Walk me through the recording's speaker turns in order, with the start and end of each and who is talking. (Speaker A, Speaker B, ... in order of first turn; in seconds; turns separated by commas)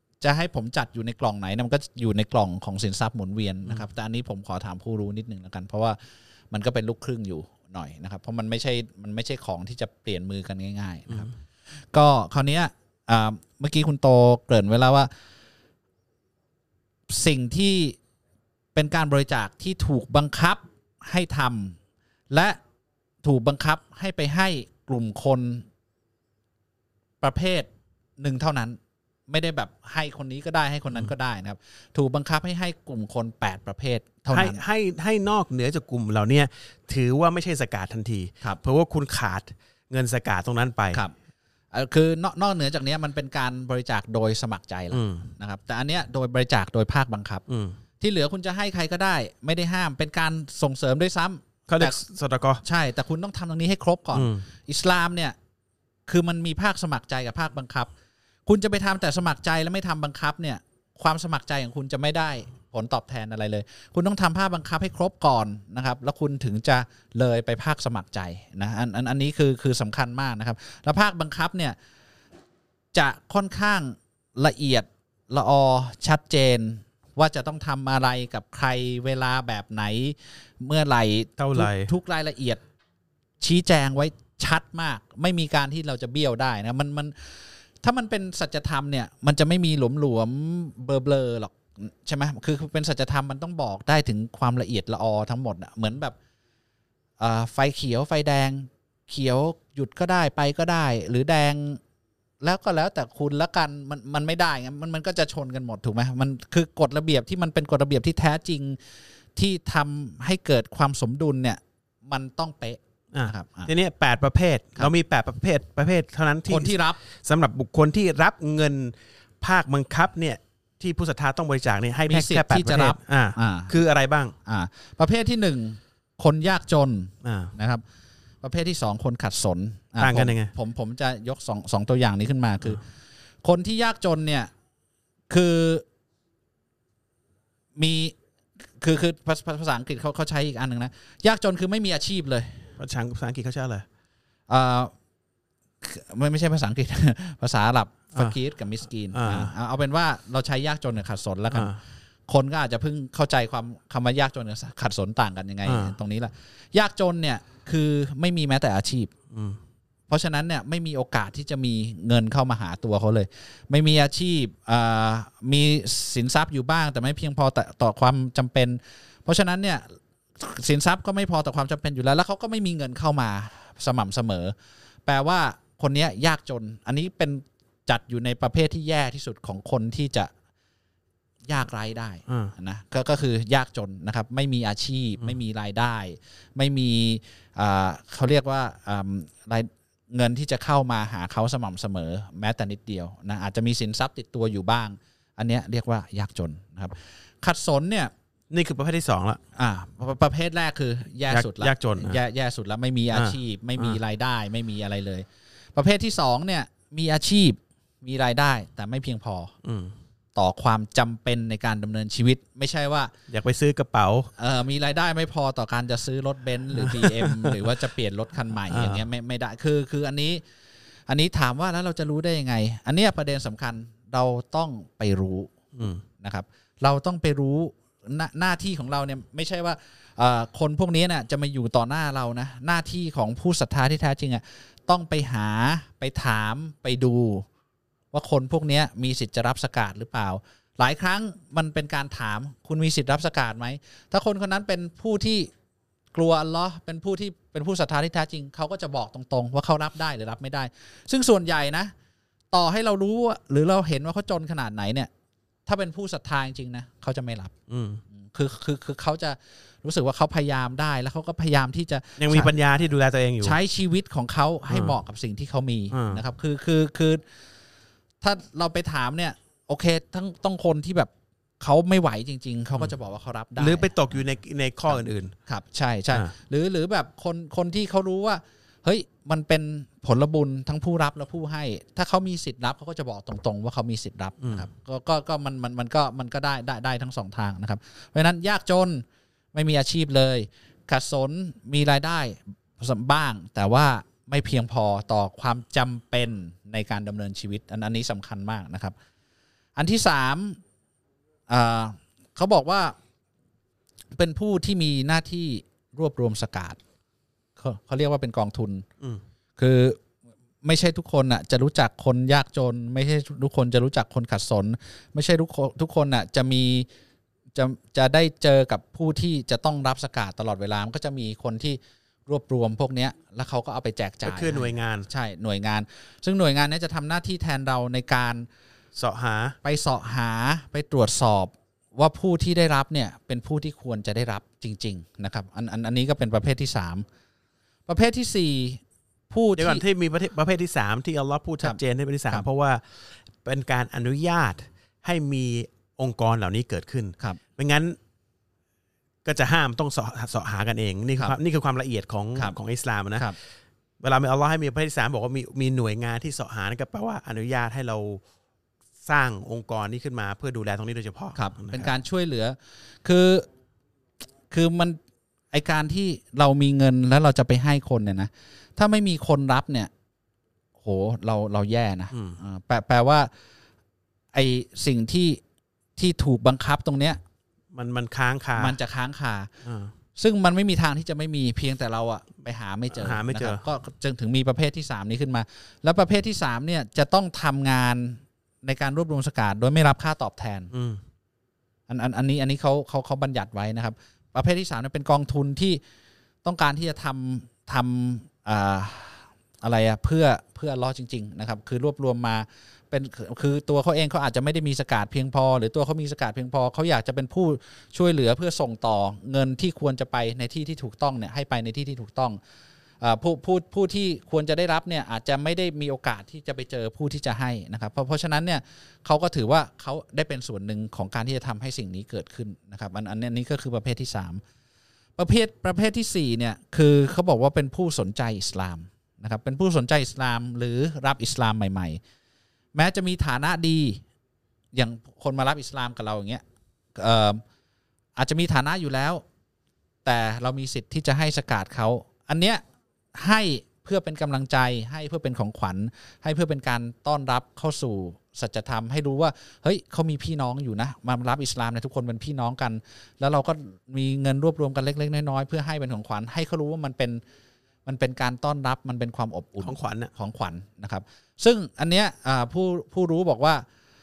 Speaker A: 0.2-6.0, Speaker A: 6.5-11.3, Speaker A: 11.9-15.1, Speaker A: 17.1-18.0, Speaker A: 18.7-21.8, Speaker A: 22.3-22.6, Speaker A: 23.2-25.6, Speaker A: 27.2-34.6, Speaker B: 34.3-41.0, Speaker A: 41.7-47.4, Speaker B: 44.9-45.3, Speaker B: 47.5-47.8, Speaker A: 48.0-52.0, Speaker B: 51.7-52.6, Speaker A: 52.6-55.4, Speaker B: 54.1-54.4, Speaker A: 56.1-57.9, Speaker A: 58.5-71.8, Speaker A: 72.9-82.6, Speaker B: 81.4-81.9, Speaker A: 83.4-96.2, Speaker A: 97.2-101.8, Speaker A: 102.4-108.8, Speaker A: 109.3-113.7, Speaker B: 113.1-124.3, Speaker A: 116.5-117.0, Speaker A: 122.1-123.8, Speaker A: 124.4-127.8, Speaker B: 127.2-127.5, Speaker A: 128.4-132.8, Speaker B: 130.0-130.5, Speaker A: 133.4-134.5, Speaker A: 135.3-135.8, Speaker A: 137.8-138.1, Speaker A: 138.8-142.7, Speaker B: 142.8-143.8, Speaker A: 144.5-144.9, Speaker A: 145.8-151.8, Speaker B: 149.1-149.5, Speaker B: 151.5-151.8, Speaker A: 152.3-159.1, Speaker B: 155.6-155.9, Speaker B: 159.3-159.6, Speaker A: 160.1-174.5, Speaker A: 175.1-180.3, Speaker A: 181.4-198.1, Speaker B: 182.3-182.5, Speaker B: 198.5-199.4, Speaker A: 199.6-209.5, Speaker B: 201.3-202.2, Speaker B: 203.1-204.0, Speaker B: 209.6-209.9, Speaker A: 210.3-213.1, Speaker B: 213.3-214.3, Speaker A: 214.4-220.4, Speaker B: 216.7-217.7, Speaker B: 218.7-219.0, Speaker A: 221.1-225.5, Speaker B: 225.8-226.0, Speaker A: 226.2-237.4, Speaker A: 238.1-245.5, Speaker A: 246.1-251.9, Speaker A: 252.5-255.1, Speaker A: 255.7-257.5, Speaker B: 257.7-258.0, Speaker A: 258.1-262.5, Speaker B: 262.2-263.6, Speaker A: 263.4-267.2, Speaker B: 264.7-264.9, Speaker B: 265.9-266.2, Speaker A: 268.2-274.2, Speaker B: 273.6-275.3, Speaker A: 274.9-298.9, Speaker B: 284.4-284.7, Speaker A: 299.8-300.6, Speaker A: 301.5-302.9, Speaker A: 304.2-306.8, Speaker A: 307.6-308.8, Speaker A: 309.6-310.0, Speaker A: 310.6-316.9, Speaker A: 317.5-328.5, Speaker B: 324.2-325.1, Speaker B: 328.9-329.6, Speaker A: 329.6-337.1, Speaker A: 337.9-339.8, Speaker B: 339.6-348.0, Speaker A: 341.6-342.4, Speaker B: 349.2-353.3, Speaker B: 354.0-358.2, Speaker B: 359.0-361.9, Speaker A: 361.3-363.5, Speaker A: 364.5-365.0, Speaker A: 365.5-369.9, Speaker A: 370.8-373.3, Speaker B: 372.1-372.4, Speaker A: 374.3-375.4, Speaker A: 376.0-377.2, Speaker B: 377.7-378.8, Speaker A: 378.6-379.5, Speaker B: 379.6-379.9, Speaker A: 380.1-390.7, Speaker B: 382.9-383.6, Speaker B: 390.7-391.0, Speaker A: 391.9-395.8, Speaker A: 396.4-412.4, Speaker A: 413.0-424.4, Speaker A: 425.2-432.0, Speaker A: 432.7-434.0, Speaker A: 434.7-436.4, Speaker A: 436.9-437.4, Speaker A: 438.1-439.2, Speaker A: 440.0-442.6, Speaker A: 443.1-457.2, Speaker A: 457.8-463.6, Speaker B: 459.6-460.1